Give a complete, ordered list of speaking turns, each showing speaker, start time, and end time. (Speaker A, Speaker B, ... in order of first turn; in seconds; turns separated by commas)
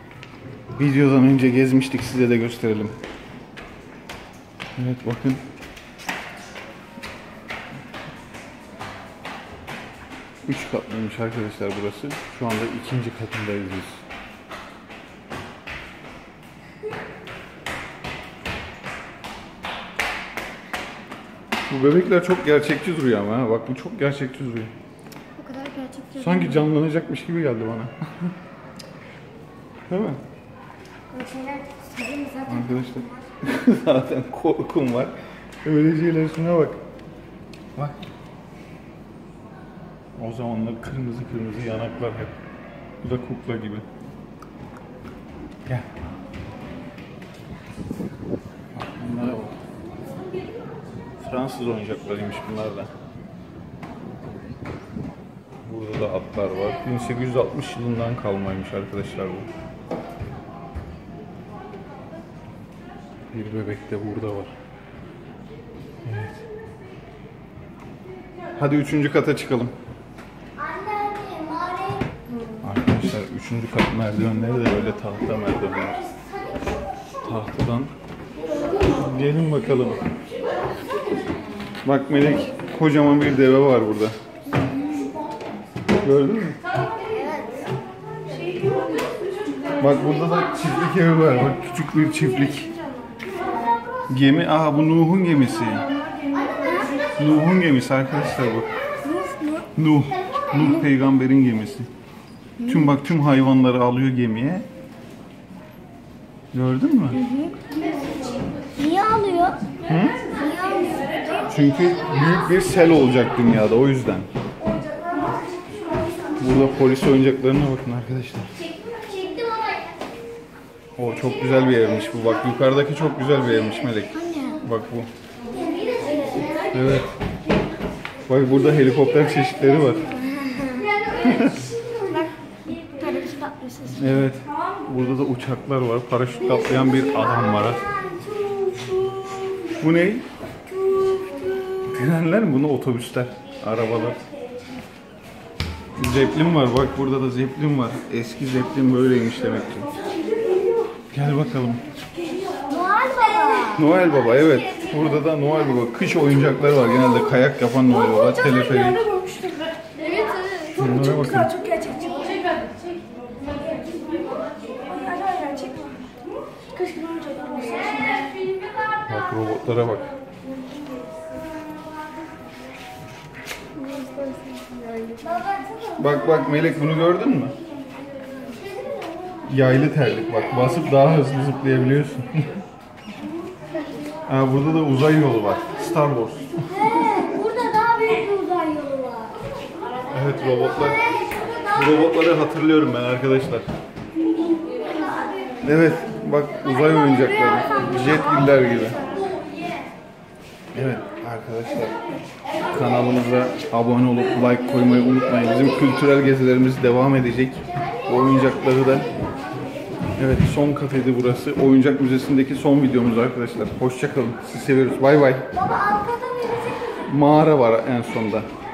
Speaker A: 0.8-2.9, Speaker A: 4.8-5.4, Speaker A: 10.4-14.0, Speaker A: 21.7-24.7, Speaker B: 25.4-26.7, Speaker A: 26.2-28.3, Speaker A: 29.9-30.2, Speaker B: 31.1-32.7, Speaker A: 32.5-36.8, Speaker A: 40.1-42.3, Speaker A: 43.0-43.9, Speaker A: 48.7-49.5, Speaker A: 51.2-52.9, Speaker A: 55.6-59.5, Speaker A: 63.3-64.5, Speaker A: 66.0-66.4, Speaker A: 68.6-69.7, Speaker B: 70.6-72.0, Speaker A: 72.6-76.0, Speaker A: 77.2-77.9, Speaker A: 78.8-80.0, Speaker A: 81.8-84.2, Speaker A: 86.0-86.6, Speaker B: 87.0-87.7, Speaker A: 89.8-92.7, Speaker A: 94.1-95.9, Speaker B: 96.2-96.9, Speaker A: 97.2-98.7, Speaker B: 99.0-99.7, Speaker A: 99.8-101.9, Speaker A: 102.7-104.7, Speaker A: 106.5-107.2, Speaker B: 107.2-107.7, Speaker B: 108.6-109.6, Speaker A: 109.8-110.2, Speaker B: 110.3-111.5, Speaker A: 111.5-114.3, Speaker A: 116.4-118.5, Speaker B: 119.2-119.8, Speaker A: 121.0-125.1, Speaker B: 124.2-124.6, Speaker B: 126.1-126.5, Speaker A: 126.7-127.1, Speaker A: 128.3-130.1, Speaker B: 130.4-130.9, Speaker A: 131.1-131.7, Speaker B: 131.8-134.1, Speaker A: 133.9-137.9, Speaker B: 138.1-139.8, Speaker A: 139.8-140.3, Speaker B: 140.7-141.6, Speaker A: 141.7-144.2, Speaker A: 146.0-149.9, Speaker A: 151.1-151.8, Speaker B: 152.6-153.8, Speaker A: 153.7-159.1, Speaker B: 159.1-162.5, Speaker A: 160.7-161.6, Speaker B: 163.8-166.1, Speaker B: 166.8-168.4, Speaker A: 169.0-170.1, Speaker B: 173.8-175.8, Speaker A: 175.9-177.6, Speaker B: 178.5-179.0, Speaker A: 179.5-182.6, Speaker A: 184.3-187.2, Speaker B: 186.8-189.3, Speaker A: 190.1-191.0, Speaker A: 191.7-193.7, Speaker B: 195.0-195.5, Speaker A: 195.6-199.0, Speaker A: 200.7-202.0, Speaker A: 202.7-209.1, Speaker A: 210.2-215.5, Speaker B: 215.6-216.7, Speaker A: 217.1-218.5